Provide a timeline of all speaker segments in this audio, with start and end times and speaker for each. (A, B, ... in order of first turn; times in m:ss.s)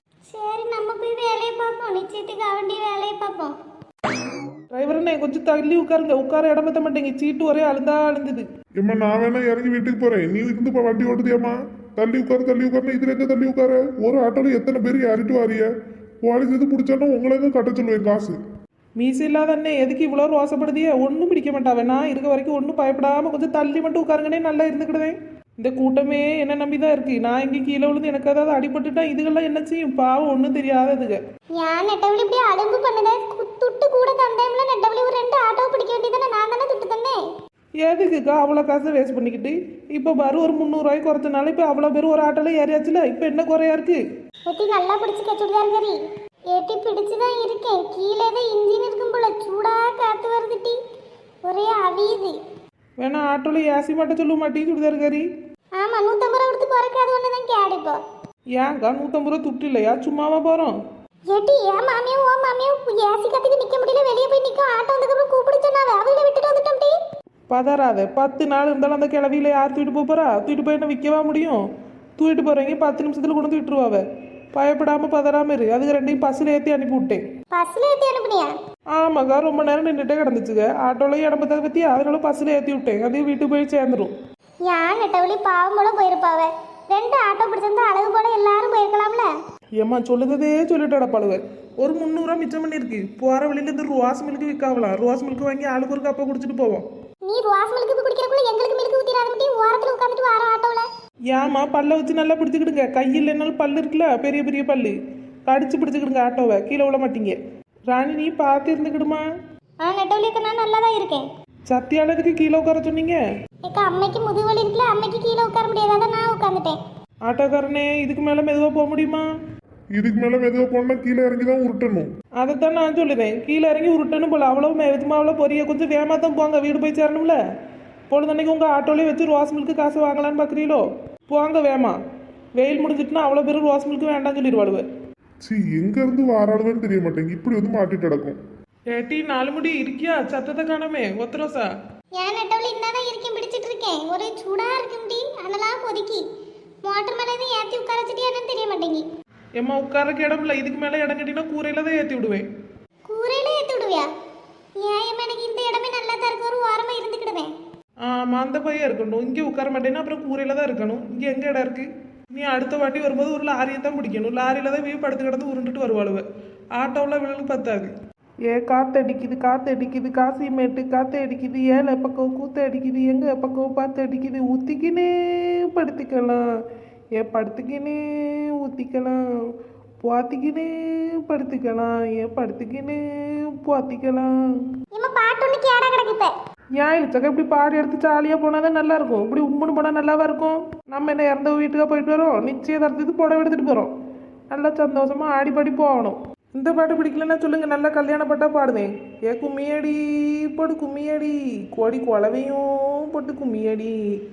0:00.3-0:03.5 A
0:04.7-0:08.4 B
0:08.8-0:15.7 C
0:16.2-0:18.4 C
0:19.0-0:31.2 B
0:31.6-0:37.2 A
0:37.8-0:44.0 B
0:44.5-0:46.0 A
0:46.5-0:50.8 A
0:51.4-0:52.4 A
0:53.0-0:55.2 B
0:55.8-0:58.0 A
0:58.5-1:00.8 B
1:01.3-1:06.9 A
1:07.5-1:11.6 B
1:12.2-1:17.2 B
1:17.5-1:18.5 A
1:18.9-1:24.1 B
1:24.6-1:29.3 A
1:29.8-1:36.8 B
1:37.2-1:40.8 A
1:41.3-1:45.0 B
1:45.5-1:47.4 B
1:47.9-1:49.2 B
1:49.8-1:51.3 A
1:51.7-1:53.2 B
1:53.6-1:56.8 A
1:57.2-1:59.2 B
1:59.9-2:02.1 C
2:02.4-2:07.4 B
2:08.1-2:12.0 B
2:12.6-2:14.8 B
2:15.4-2:18.4 C
2:18.9-2:21.7 B
2:22.2-2:26.2 A
2:26.8-2:29.0 A
2:29.6-2:32.4 B
2:33.0-2:34.1 A
2:34.8-2:37.5 A
2:38.0-2:46.2 B
2:46.8-2:47.9 B
2:48.5-2:56.4 B
2:57.2-2:59.2 B
3:00.0-3:04.4 B
3:04.9-3:06.3 A
3:06.8-3:13.9 B
3:14.5-3:24.0 B